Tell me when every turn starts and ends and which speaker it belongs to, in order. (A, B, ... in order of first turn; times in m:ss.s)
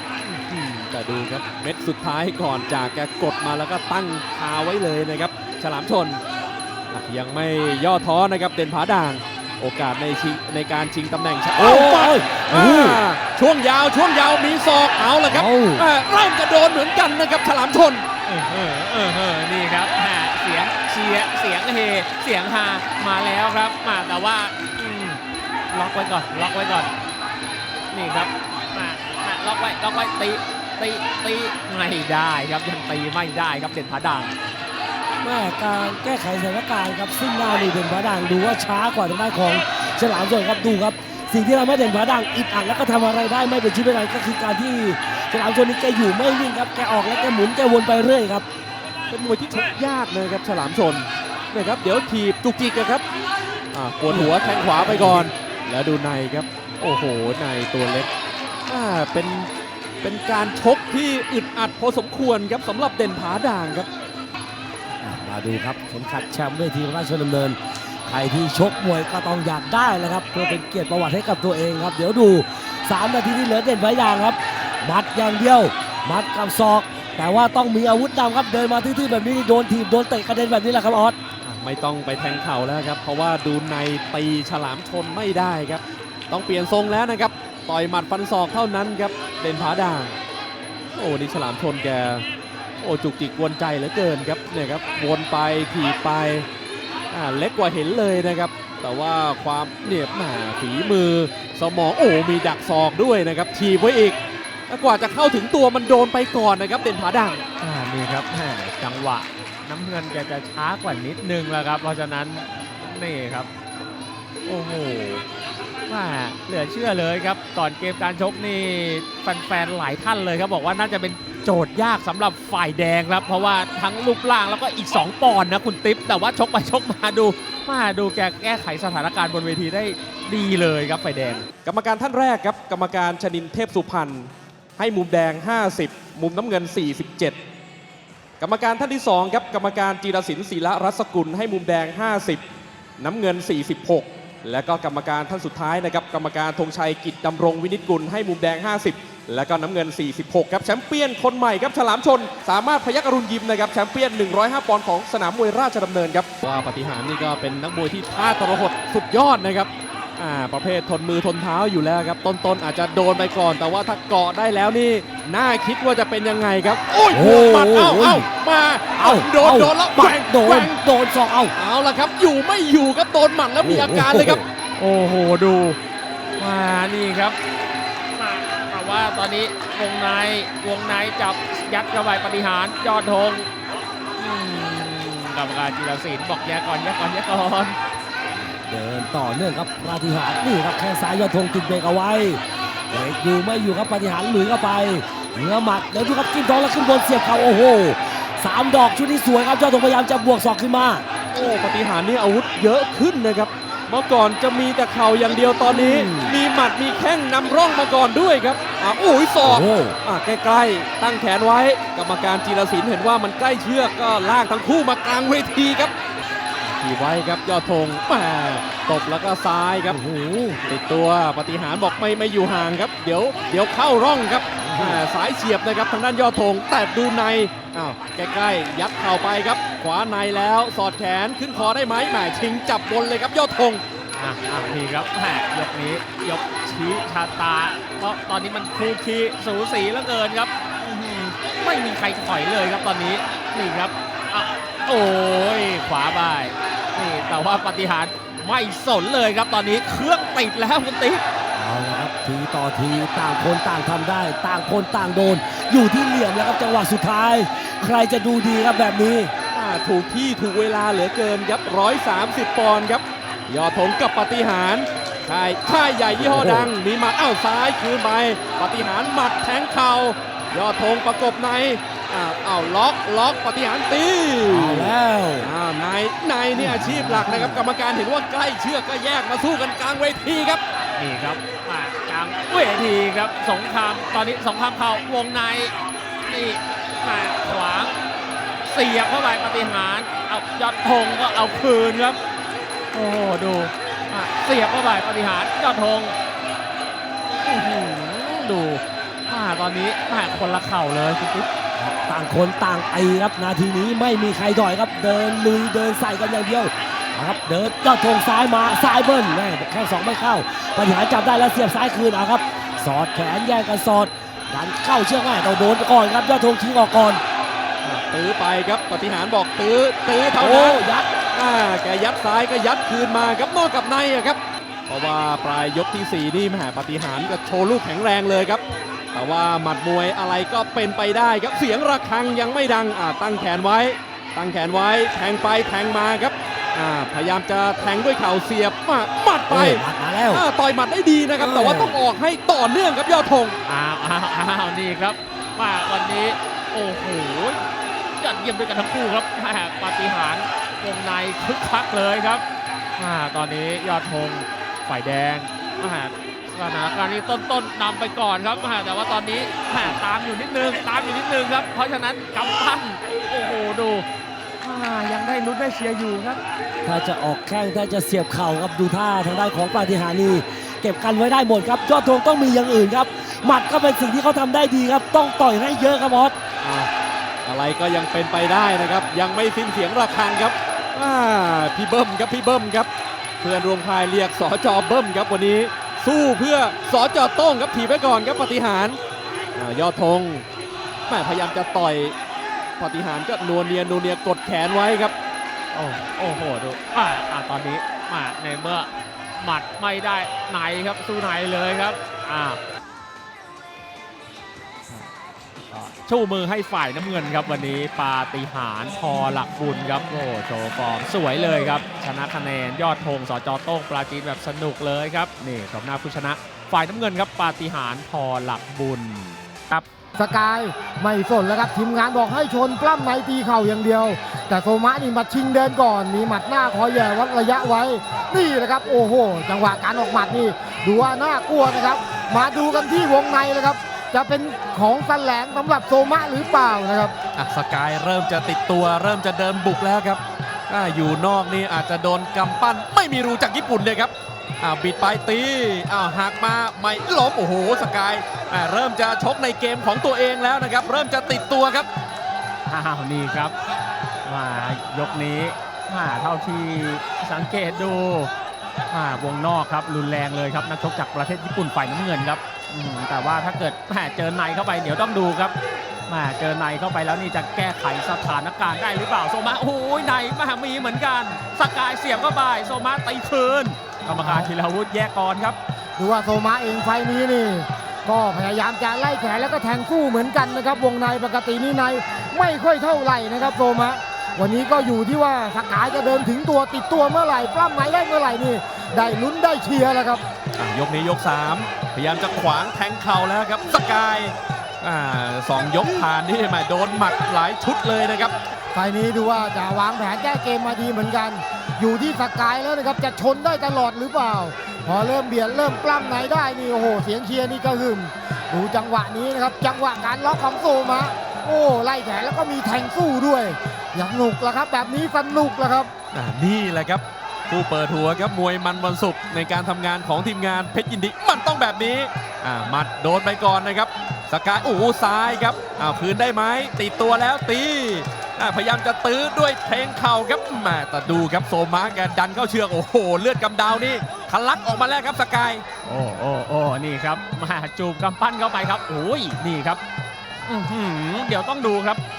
0:00.2-0:06.2 A
0:06.9-0:18.1 A
0:11.6-0:13.0 B
0:15.3-0:15.8 B
0:18.3-0:26.9 C
0:27.9-0:34.3 C
0:35.2-0:48.4 B
0:49.1-0:53.0 A
0:53.7-0:58.1 A
0:54.1-0:55.3 B
0:58.7-0:59.5 A
1:00.0-1:03.9 A
1:05.0-1:21.2 B
1:21.4-1:30.2 A
1:30.9-1:32.2 A
1:32.8-1:36.5 A
1:37.1-1:47.4 A
1:47.6-1:53.5 C
1:54.4-1:55.2 C
1:55.9-2:11.5 C
2:11.6-2:17.4 A
2:18.4-2:22.4 A
2:23.0-2:50.7 A
2:47.1-2:48.3 B
2:49.0-2:51.5 B
2:51.5-2:54.4 A
2:53.6-2:54.4 B
2:54.8-2:55.8 C
2:56.4-2:57.4 C
2:58.2-3:03.5 C
3:04.2-3:07.8 C
3:08.7-3:21.0 B
3:21.3-3:35.9 A
3:25.7-3:26.4 B
3:29.4-3:30.0 B
3:36.6-3:40.0 A
3:39.9-3:40.6 B
3:40.6-3:53.8 A
3:44.6-3:45.0 B
3:54.2-4:11.2 C
4:11.5-4:19.3 B
4:19.5-4:40.6 A
4:26.1-4:26.7 B
4:34.5-4:35.5 B
4:36.6-4:37.6 B
4:41.0-4:45.7 C
4:46.3-4:48.0 C
4:48.6-4:52.2 C
4:52.9-4:56.1 C
4:57.4-5:01.5 C
5:01.8-5:17.2 B
5:17.8-5:20.8 A
5:20.4-5:21.1 B
5:21.3-5:43.6 A
5:39.5-5:40.4 B
5:41.4-5:42.0 B
5:43.6-5:47.6 C
5:48.2-5:52.4 C
5:53.0-6:04.0 C
6:04.6-6:06.4 C
6:06.8-6:16.4 B
6:16.6-6:16.9 A
6:17.4-6:22.9 A
6:23.4-6:29.0 A
6:29.5-6:30.4 A
6:31.1-6:32.1 A
6:32.8-6:35.1 A
6:35.7-6:42.6 C
6:45.6-6:59.8 C
7:00.2-7:17.1 D
7:17.3-7:31.9 A
7:32.7-7:33.5 C
7:34.2-7:38.3 C
7:38.9-7:45.5 C
7:46.1-7:55.6 C
7:54.2-7:54.5 D
7:56.0-8:10.2 D
8:10.6-8:18.3 A
8:18.7-8:35.9 D
8:36.1-8:55.6 A
8:55.8-8:59.8 C
9:00.5-9:02.0 C